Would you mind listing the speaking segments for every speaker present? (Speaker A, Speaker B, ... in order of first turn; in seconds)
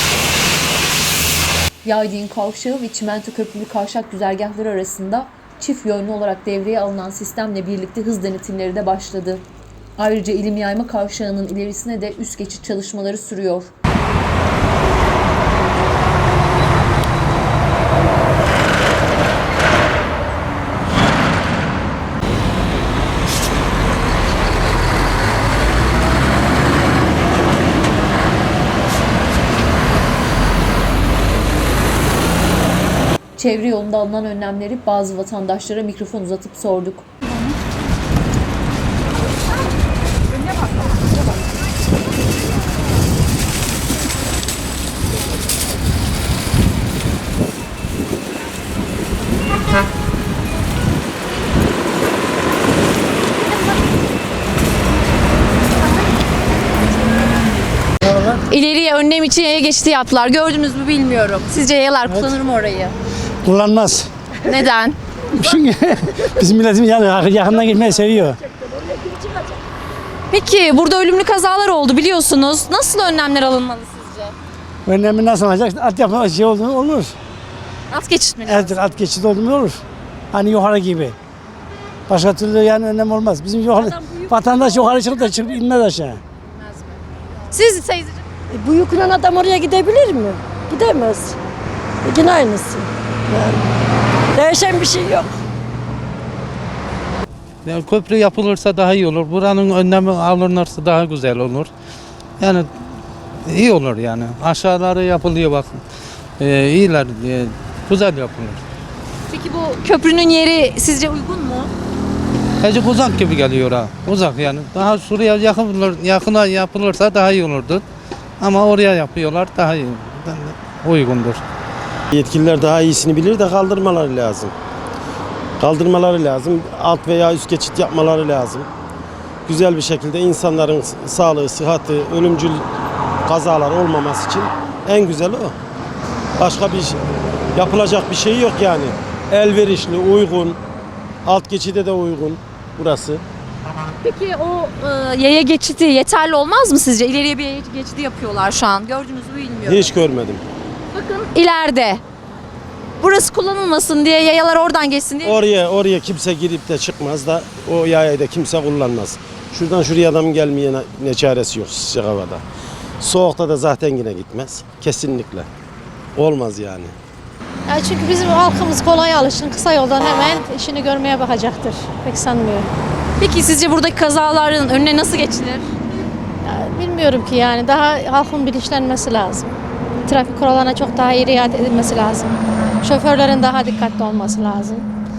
Speaker A: 1.8-9.4, 10.0-13.7, 33.4-37.1
Speaker B: 58.5-62.9, 64.5-65.0, 70.3-74.3, 77.9-78.9, 83.8-84.3, 86.5-88.2, 109.3-111.7, 144.0-149.9, 150.9-152.0, 153.0-155.4, 173.2-175.7
Speaker C: 62.1-62.4, 63.4-64.1, 65.3-68.4, 74.8-77.1, 78.4-79.8, 80.3-81.2, 82.1-86.2
Speaker D: 67.5-69.6, 88.5-91.4, 92.0-93.7, 94.3-95.3
Speaker E: 97.6-101.7, 102.4-102.7, 103.5-105.8, 106.4-108.6, 112.6-117.8, 118.4-121.4
Speaker F: 122.1-124.5, 125.6-128.7, 129.5-132.6, 133.2-135.5, 136.4-137.0, 137.5-140.6, 141.2-143.2, 149.7-150.4, 155.2-162.4, 163.0-165.5, 166.2-166.9
Speaker G: 167.7-172.7, 176.4-179.5, 180.0-184.8